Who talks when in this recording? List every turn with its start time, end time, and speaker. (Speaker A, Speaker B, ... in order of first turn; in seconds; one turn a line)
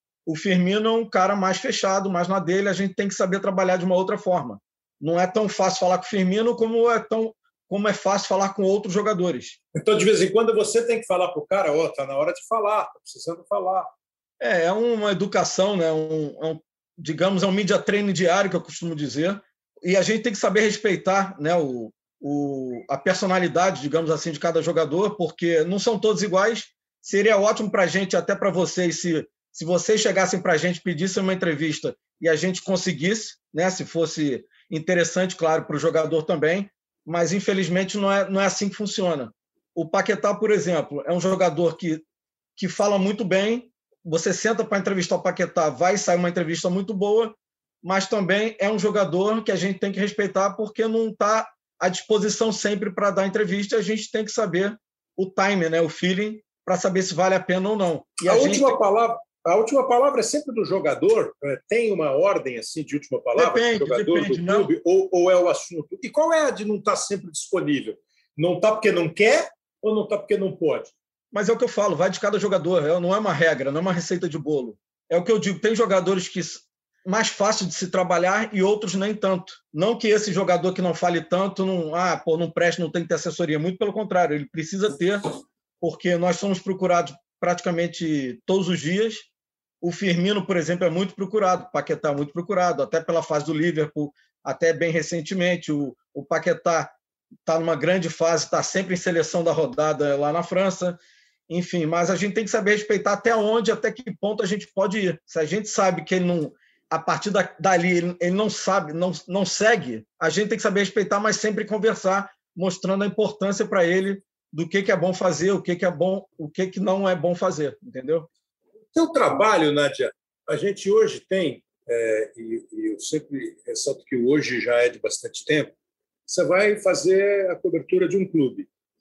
Speaker A: 0.3-9.6
Speaker B: 9.8-13.9
Speaker A: 14.4-42.0
Speaker A: 42.6-58.8
Speaker B: 58.3-70.9
Speaker A: 63.4-64.7
Speaker A: 71.3-89.3
Speaker A: 89.8-96.9
Speaker A: 97.5-118.3
Speaker B: 119.0-125.7
Speaker B: 126.3-128.7